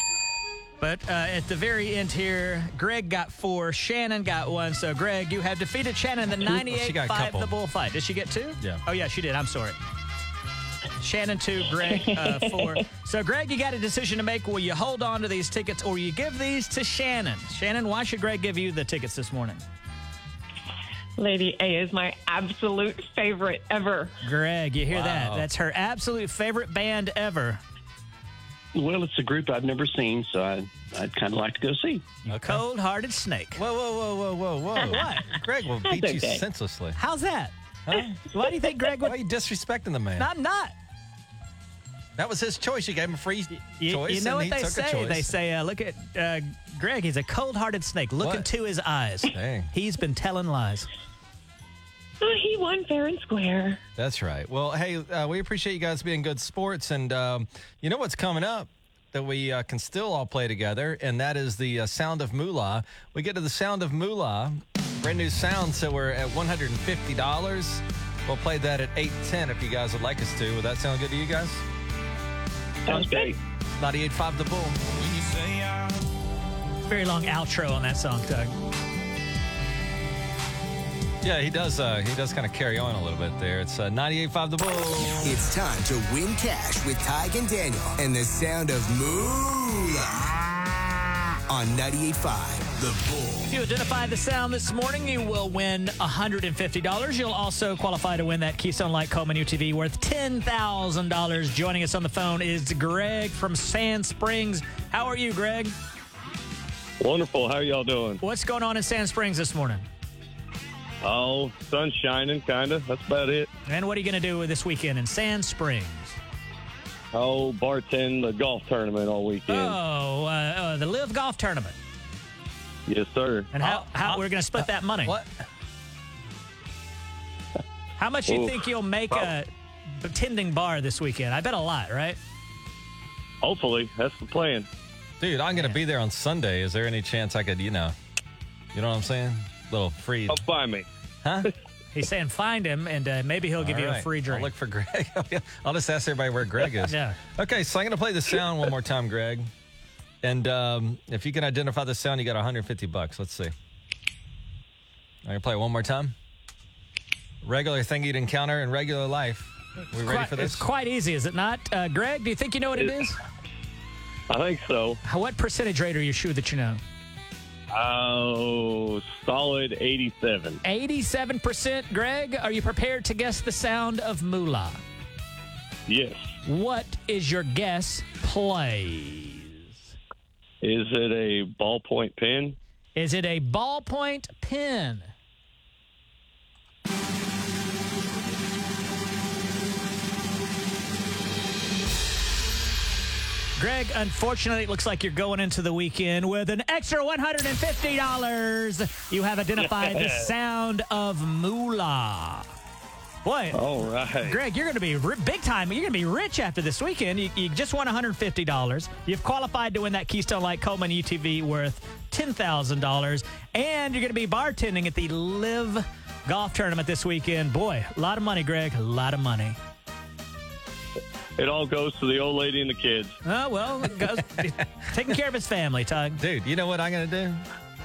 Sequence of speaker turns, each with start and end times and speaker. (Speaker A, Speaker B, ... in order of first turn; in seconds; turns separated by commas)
Speaker A: 0.8-9.8, Speaker B: 6.5-7.5, Speaker A: 11.0-19.6, Speaker C: 11.9-12.8, Speaker C: 21.2-24.1, Speaker A: 24.2-27.6, Speaker B: 24.9-25.5, Speaker D: 28.7-32.1, Speaker A: 32.3-33.6, Speaker B: 32.3-32.6, Speaker B: 33.6-37.0, Speaker A: 34.9-35.3, Speaker C: 35.8-36.4, Speaker A: 37.0-37.5, Speaker B: 37.9-38.2, Speaker A: 38.3-39.1, Speaker B: 39.0-40.3, Speaker A: 40.2-40.8, Speaker B: 42.1-45.3, Speaker A: 43.6-50.9, Speaker B: 48.2-48.5, Speaker B: 49.3-49.7, Speaker C: 52.2-53.8, Speaker B: 54.0-71.6, Speaker C: 72.9-73.4, Speaker D: 72.9-73.3, Speaker B: 73.8-74.8, Speaker A: 76.9-78.5, Speaker B: 81.2-85.3, Speaker E: 85.2-90.3, Speaker E: 91.5-93.5, Speaker A: 93.5-105.7, Speaker F: 107.0-108.2, Speaker A: 108.2-109.9, Speaker F: 111.0-113.5, Speaker A: 113.7-116.2, Speaker F: 117.1-119.8, Speaker A: 119.5-121.8, Speaker F: 122.9-123.5, Speaker A: 123.5-125.2, Speaker B: 123.6-125.4, Speaker A: 128.0-129.5, Speaker F: 128.3-129.3, Speaker A: 130.0-132.2, Speaker F: 133.4-134.7, Speaker B: 135.2-137.9, Speaker B: 138.7-140.4, Speaker F: 140.3-140.9, Speaker B: 141.2-141.5, Speaker A: 141.9-144.5, Speaker B: 143.6-149.5, Speaker A: 146.8-147.2, Speaker B: 150.2-153.5, Speaker B: 155.2-156.1, Speaker B: 157.4-160.7, Speaker A: 160.0-163.2, Speaker F: 164.3-165.0, Speaker A: 165.1-166.8, Speaker F: 167.7-170.6, Speaker A: 170.6-174.8, Speaker F: 175.9-176.3, Speaker A: 176.4-179.9, Speaker F: 180.6-182.6, Speaker A: 182.9-185.1, Speaker A: 193.6-202.5, Speaker F: 199.6-200.3, Speaker A: 203.2-203.6, Speaker F: 203.5-204.4, Speaker A: 204.2-219.6, Speaker F: 221.4-223.2, Speaker A: 223.2-226.2, Speaker B: 224.0-224.6, Speaker B: 226.2-227.4